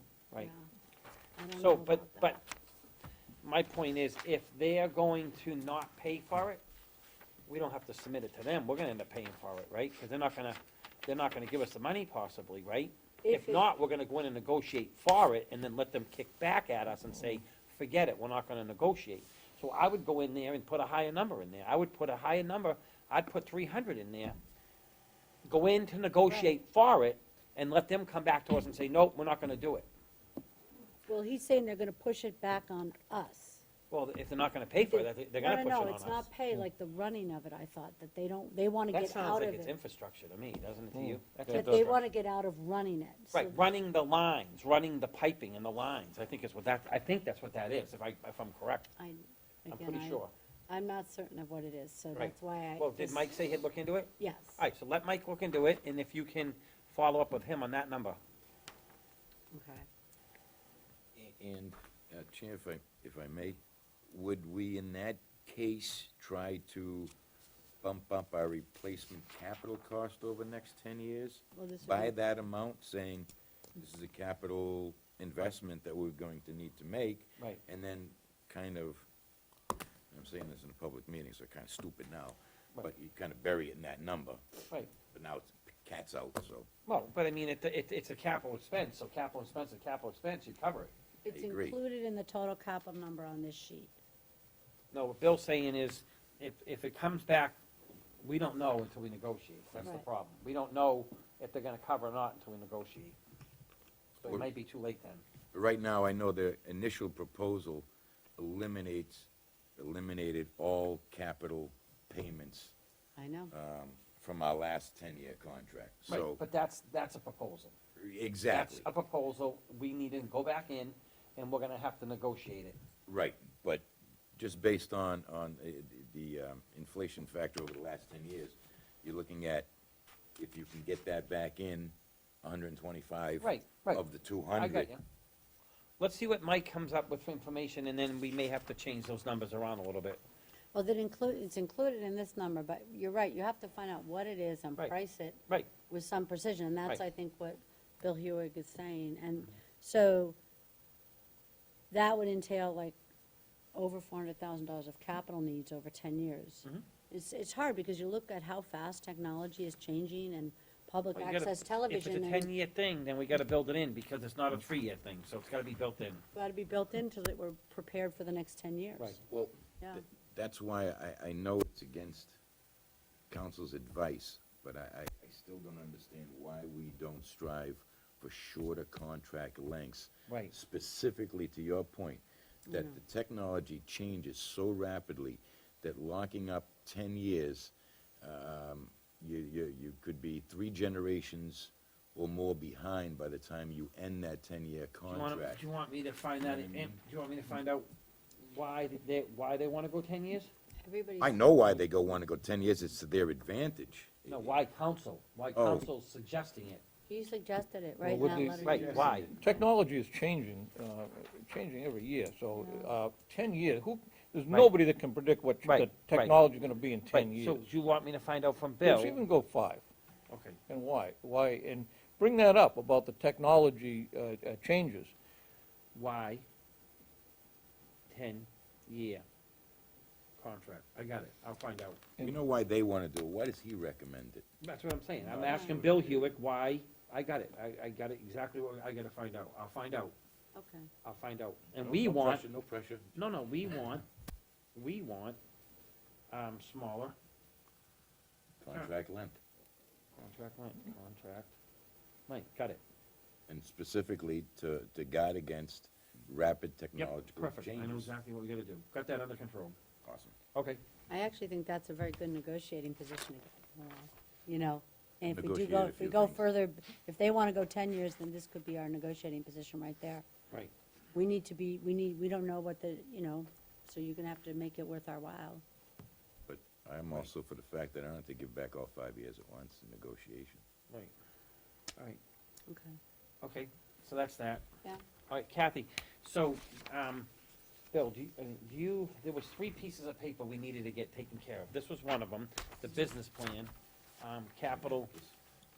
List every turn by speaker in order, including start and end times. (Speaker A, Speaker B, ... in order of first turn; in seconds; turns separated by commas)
Speaker A: 0.4-0.7, Speaker A: 1.4-2.4, Speaker B: 1.5-2.4, Speaker B: 3.4-6.6, Speaker B: 7.5-24.4, Speaker A: 13.2-13.6, Speaker B: 25.4-29.9, Speaker A: 26.3-26.5, Speaker A: 31.1-33.6, Speaker B: 33.9-36.3, Speaker A: 34.8-39.7, Speaker B: 38.9-42.0, Speaker C: 40.9-41.8, Speaker A: 41.5-43.5, Speaker B: 43.3-48.9, Speaker A: 49.0-53.4, Speaker B: 49.7-50.3, Speaker B: 52.1-58.2, Speaker A: 54.2-54.6, Speaker A: 59.5-59.9, Speaker D: 61.1-63.6, Speaker D: 64.1-67.1, Speaker D: 67.8-79.1, Speaker A: 71.5-72.1, Speaker D: 80.1-84.4, Speaker D: 85.1-86.7, Speaker B: 86.9-90.9, Speaker A: 91.2-93.9, Speaker D: 91.3-91.8, Speaker B: 94.9-97.6, Speaker B: 98.2-103.2, Speaker B: 104.2-105.2, Speaker D: 105.5-112.7, Speaker A: 113.2-113.5, Speaker D: 113.5-116.4, Speaker B: 116.1-117.7, Speaker D: 118.0-118.9, Speaker B: 118.5-122.8, Speaker D: 123.1-129.7, Speaker D: 130.4-134.9, Speaker B: 133.4-135.0, Speaker B: 136.0-140.2, Speaker A: 140.7-150.4, Speaker A: 151.9-153.0, Speaker A: 153.7-162.5, Speaker B: 161.1-166.2, Speaker A: 166.3-169.2, Speaker D: 169.3-172.4, Speaker D: 173.3-195.6, Speaker B: 180.3-180.5, Speaker A: 182.7-183.0, Speaker B: 195.1-197.9, Speaker D: 196.4-197.0, Speaker B: 198.4-200.5, Speaker A: 200.8-201.5, Speaker D: 201.2-204.5, Speaker B: 204.3-206.8, Speaker D: 205.5-205.9, Speaker A: 207.1-209.4, Speaker C: 208.0-217.6, Speaker D: 208.2-209.6, Speaker B: 208.6-209.3, Speaker A: 212.6-212.9, Speaker B: 215.6-216.4, Speaker B: 217.1-219.2, Speaker C: 218.8-219.8, Speaker B: 220.3-220.6, Speaker C: 220.7-225.1, Speaker B: 225.9-226.4, Speaker B: 228.1-229.2, Speaker B: 230.4-232.0, Speaker D: 232.2-234.5, Speaker B: 234.6-240.1, Speaker D: 235.2-236.3, Speaker A: 235.5-235.8, Speaker A: 240.5-240.9, Speaker B: 241.0-242.4, Speaker D: 241.8-243.2, Speaker B: 243.1-244.0, Speaker B: 244.7-245.4, Speaker B: 246.3-247.1, Speaker D: 248.6-249.4, Speaker B: 250.2-251.5, Speaker B: 252.3-252.8, Speaker D: 253.5-258.1, Speaker B: 257.0-259.8, Speaker D: 260.0-260.3, Speaker B: 260.5-260.8, Speaker A: 261.1-270.2, Speaker D: 265.2-266.5, Speaker A: 271.1-275.6, Speaker D: 276.5-280.6, Speaker A: 282.7-283.0, Speaker B: 283.4-284.6, Speaker B: 285.3-287.3, Speaker B: 287.9-295.1, Speaker D: 294.7-295.3